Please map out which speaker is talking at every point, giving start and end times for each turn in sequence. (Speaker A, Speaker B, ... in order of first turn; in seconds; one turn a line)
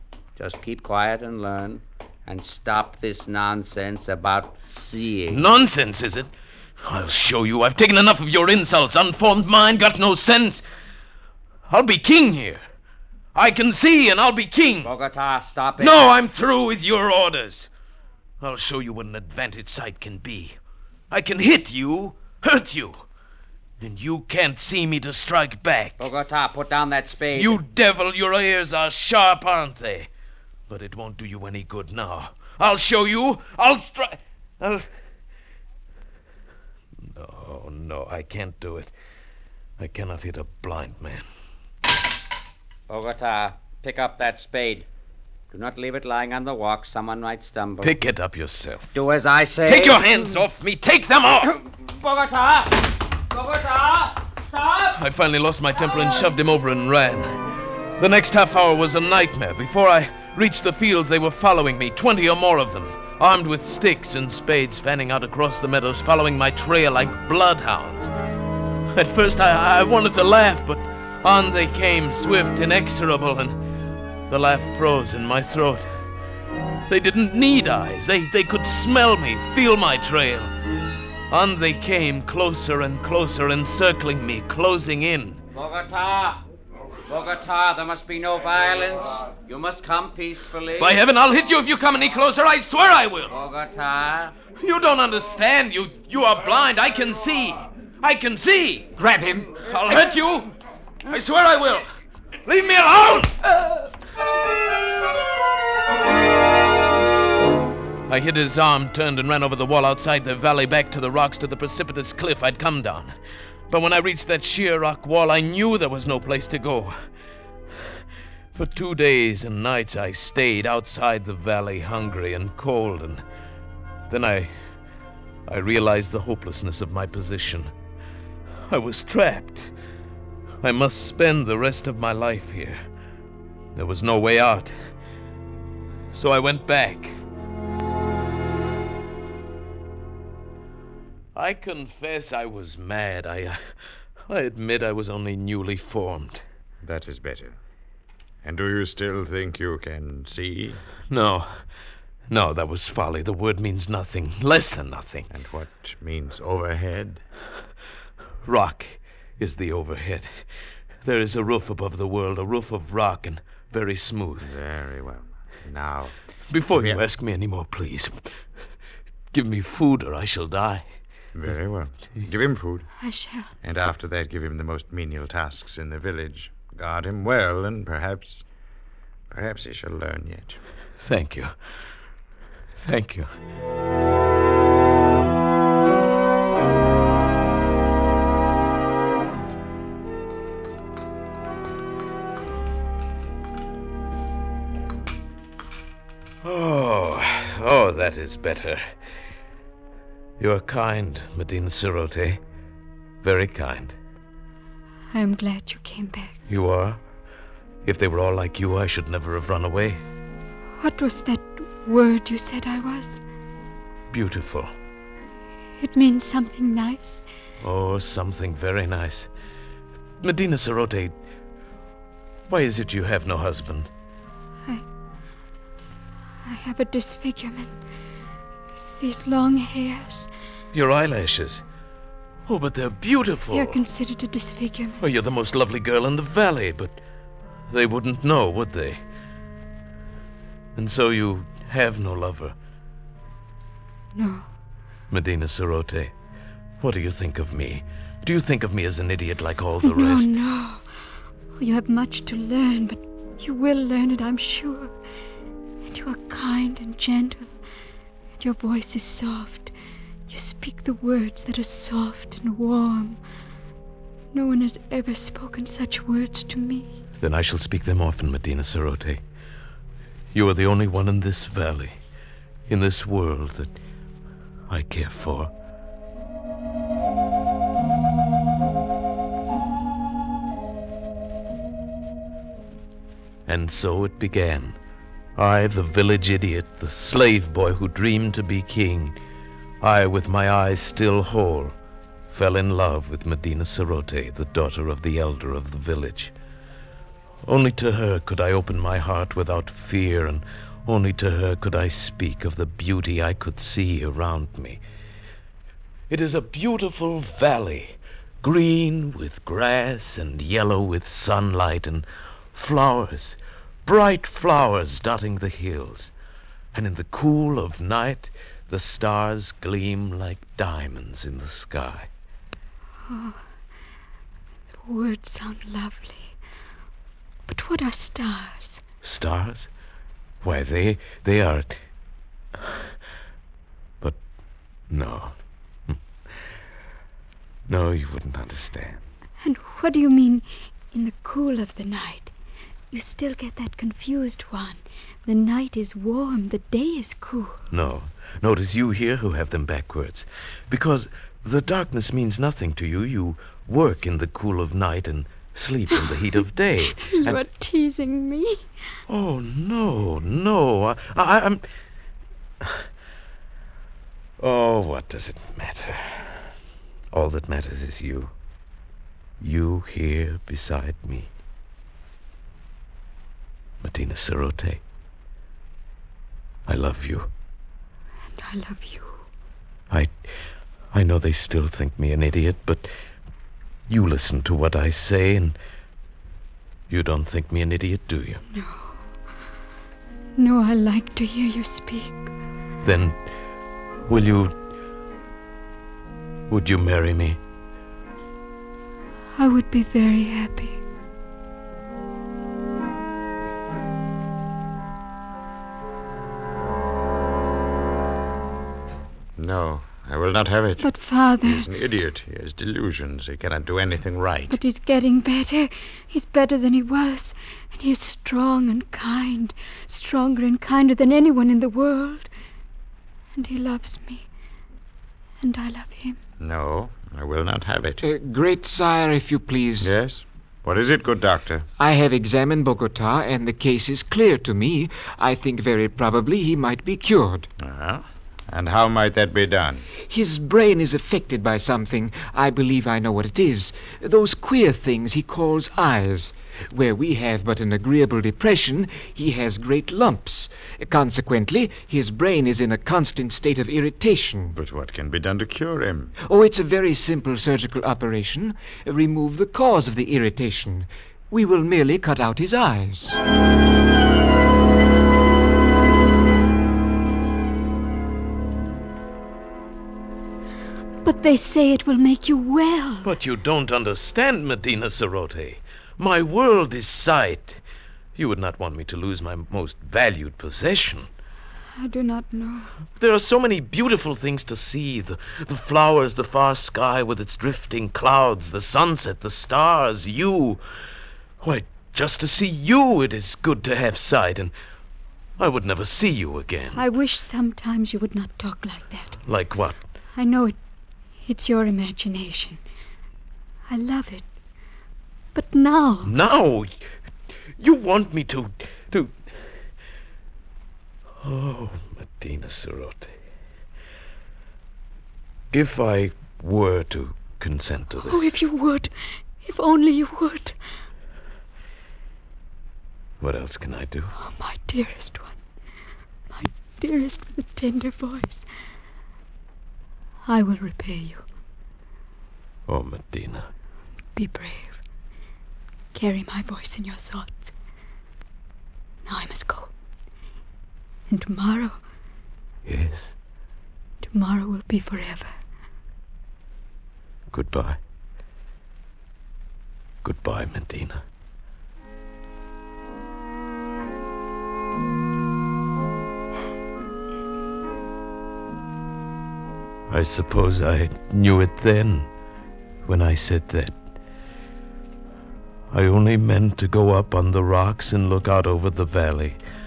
Speaker A: 0.4-5.5
Speaker B: 5.3-6.3
Speaker B: 6.8-10.6
Speaker B: 11.7-12.6
Speaker B: 13.3-14.9
Speaker A: 14.8-16.1
Speaker B: 15.8-17.7
Speaker B: 18.4-20.6
Speaker B: 21.1-23.0
Speaker B: 23.8-26.0
Speaker A: 26.0-27.6
Speaker B: 27.3-30.1
Speaker B: 30.7-34.9
Speaker B: 37.1-38.9
Speaker B: 39.8-41.2
Speaker A: 42.9-44.9
Speaker A: 45.5-47.9
Speaker B: 47.8-48.9
Speaker A: 48.9-50.4
Speaker B: 49.6-51.6
Speaker A: 51.6-55.0
Speaker B: 54.9-57.3
Speaker B: 58.0-68.1
Speaker B: 68.9-73.6
Speaker B: 74.3-75.9
Speaker B: 76.9-80.5
Speaker B: 81.3-85.4
Speaker A: 85.5-86.4
Speaker A: 87.1-91.0
Speaker B: 90.8-93.3
Speaker A: 93.3-94.3
Speaker B: 94.6-98.9
Speaker C: 99.0-99.7
Speaker B: 99.6-100.5
Speaker B: 101.1-101.8
Speaker B: 102.5-103.5
Speaker B: 108.1-113.2
Speaker B: 113.7-117.0
Speaker B: 118.5-123.2
Speaker B: 124.1-124.5
Speaker B: 125.5-127.7
Speaker B: 128.7-129.7
Speaker B: 130.6-132.8
Speaker B: 133.8-134.7
Speaker B: 136.1-137.2
Speaker B: 141.3-143.6
Speaker B: 144.3-146.4
Speaker D: 146.8-147.6
Speaker D: 148.4-150.8
Speaker B: 151.1-151.5
Speaker B: 152.3-155.3
Speaker D: 155.3-157.2
Speaker B: 158.4-160.5
Speaker B: 161.0-164.5
Speaker D: 164.4-166.2
Speaker B: 166.5-168.3
Speaker D: 166.7-167.0
Speaker B: 169.3-170.9
Speaker D: 171.3-172.9
Speaker E: 173.0-173.5
Speaker D: 173.6-178.4
Speaker D: 179.3-180.6
Speaker B: 181.0-181.5
Speaker B: 182.8-183.3
Speaker B: 196.4-198.8
Speaker B: 200.4-202.4
Speaker B: 203.2-204.0
Speaker E: 205.1-206.3
Speaker B: 206.5-207.0
Speaker B: 207.8-210.0
Speaker E: 210.8-213.2
Speaker B: 214.1-214.7
Speaker E: 215.8-217.2
Speaker B: 217.6-219.3
Speaker B: 220.2-221.1
Speaker B: 222.5-223.9
Speaker E: 226.4-227.8
Speaker E: 228.8-230.3
Speaker B: 230.7-231.6
Speaker B: 232.5-233.8
Speaker E: 233.5-235.0
Speaker B: 235.0-237.0
Speaker B: 237.7-239.0
Speaker B: 240.8-242.5
Speaker E: 244.2-244.5
Speaker B: 245.1-246.1
Speaker B: 246.8-250.3
Speaker E: 249.8-250.9
Speaker E: 251.6-254.9
Speaker E: 255.8-257.5
Speaker E: 258.4-259.7
Speaker E: 260.3-263.2
Speaker E: 264.3-266.9
Speaker B: 267.2-269.2
Speaker B: 270.3-272.0
Speaker B: 272.7-273.8
Speaker B: 274.7-275.5
Speaker B: 283.5-284.8
Speaker B: 285.4-289.2
Speaker B: 289.8-291.8
Speaker B: 292.3-296.3
Speaker B: 297.4-304.8
Speaker B: 306.1-316.1
Speaker B: 316.7-322.1
Speaker E: 323.1-323.4
Speaker E: 324.8-326.4
Speaker E: 327.5-328.8
Speaker B: 329.0-329.7
Speaker B: 330.4-331.8
Speaker B: 332.6-332.9
Speaker B: 334.9-335.3
Speaker B: 337.7-339.0
Speaker E: 339.4-342.3
Speaker E: 342.9-347.6
Speaker B: 347.7-357.4
Speaker E: 357.0-358.7
Speaker B: 359.1-361.6
Speaker B: 362.6-362.9
Speaker B: 364.4-366.4
Speaker B: 367.1-368.3
Speaker B: 369.4-371.3
Speaker B: 373.8-374.8
Speaker B: 376.7-377.3
Speaker E: 378.3-379.2
Speaker B: 379.9-380.3
Speaker B: 380.9-382.9
Speaker B: 383.9-385.6
Speaker B: 386.9-388.4
Speaker E: 388.5-389.0
Speaker E: 390.4-392.3
Speaker B: 392.8-393.3
Speaker B: 394.1-394.5
Speaker B: 396.5-397.4
Speaker E: 399.3-400.8
Speaker D: 409.4-414.6
Speaker E: 410.8-411.7
Speaker E: 414.5-422.3
Speaker E: 423.3-424.3
Speaker E: 425.4-426.2
Speaker D: 426.4-428.0
Speaker C: 428.0-429.9
Speaker D: 429.8-431.7
Speaker C: 431.8-437.5
Speaker D: 437.6-439.9
Speaker C: 440.1-454.6
Speaker D: 454.5-456.1
Speaker C: 456.3-463.2
Speaker E: 471.0-473.1
Speaker B: 473.0-477.6
Speaker B: 478.2-481.1
Speaker E: 481.8-482.8
Speaker B: 483.0-490.6
Speaker B: 491.4-494.5
Speaker B: 495.4-496.8
Speaker E: 496.7-499.2
Speaker B: 499.2-499.8
Speaker E: 500.1-500.6
Speaker E: 501.2-502.6
Speaker E: 503.7-504.2
Speaker E: 505.3-506.2
Speaker B: 506.0-506.9
Speaker B: 507.6-509.6
Speaker B: 511.2-513.1
Speaker B: 515.5-518.3
Speaker E: 518.0-520.6
Speaker B: 523.2-524.1
Speaker E: 524.2-525.4
Speaker E: 526.3-528.5
Speaker E: 530.2-531.2
Speaker B: 532.7-533.5
Speaker E: 534.1-534.8
Speaker E: 535.9-537.5
Speaker E: 539.0-539.7
Speaker E: 541.1-541.8
Speaker B: 542.7-543.1
Speaker E: 544.0-545.4
Speaker B: 547.3-547.8
Speaker B: 550.0-551.0
Speaker B: 559.9-562.1
Speaker B: 562.8-563.8
Speaker B: 565.7-569.4